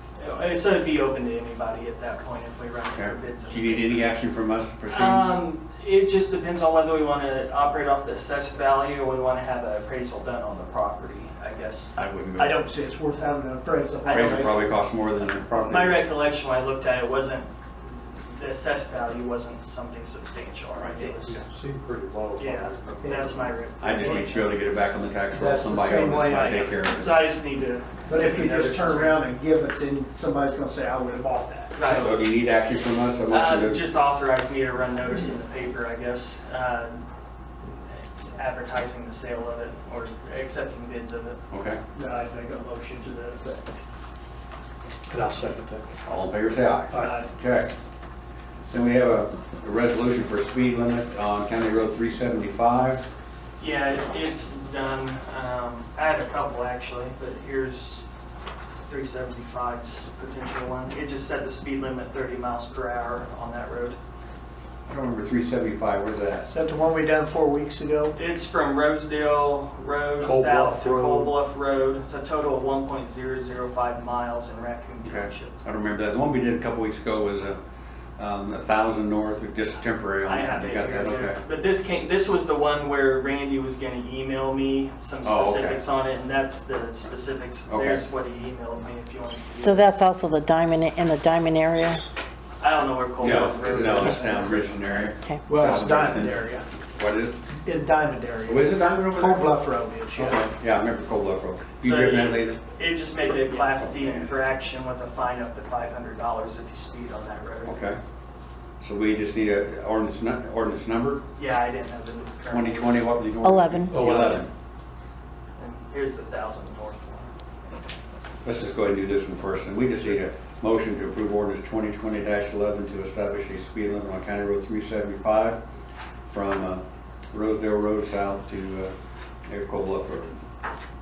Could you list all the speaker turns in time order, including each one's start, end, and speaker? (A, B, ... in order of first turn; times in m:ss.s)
0:00.2-0:04.1 A
0:02.9-0:05.4 B
0:04.9-0:11.9 A
0:12.0-0:12.6 B
0:12.4-0:14.7 C
0:14.0-0:14.5 A
0:14.1-0:16.0 B
0:15.7-0:21.4 A
0:21.2-0:23.6 D
0:22.4-0:24.6 A
0:23.8-0:27.2 B
0:25.3-0:26.8 C
0:26.8-0:29.2 A
0:28.1-0:32.1 C
0:31.8-0:32.1 A
0:31.9-0:33.8 B
0:33.3-0:37.0 A
0:37.9-0:41.4 A
0:41.5-0:41.8 B
0:41.9-0:43.7 C
0:45.1-0:45.9 D
0:46.0-0:47.7 B
0:46.9-0:47.3 C
0:48.7-0:53.0 B
0:53.6-0:58.1 A
0:58.8-1:04.0 A
1:04.9-1:06.5 B
1:06.5-1:08.1 C
1:08.1-1:15.5 A
1:10.2-1:11.3 D
1:15.0-1:17.6 B
1:18.2-1:21.4 B
1:20.2-1:29.9 A
1:25.2-1:25.8 B
1:27.7-1:28.0 B
1:29.4-1:32.0 E
1:32.6-1:35.1 A
1:33.2-1:36.4 B
1:35.5-1:36.6 C
1:37.0-1:37.4 B
1:37.6-1:40.4 C
1:38.4-1:39.6 B
1:40.2-1:42.6 B
1:41.8-1:47.8 A
1:47.6-1:48.0 B
1:48.8-1:51.2 B
1:51.4-1:53.1 A
1:52.5-1:54.5 B
1:53.4-1:54.1 E
1:53.9-1:54.4 D
1:55.6-1:57.3 A
1:58.4-2:05.6 B
2:06.3-2:08.9 B
2:09.5-2:10.3 B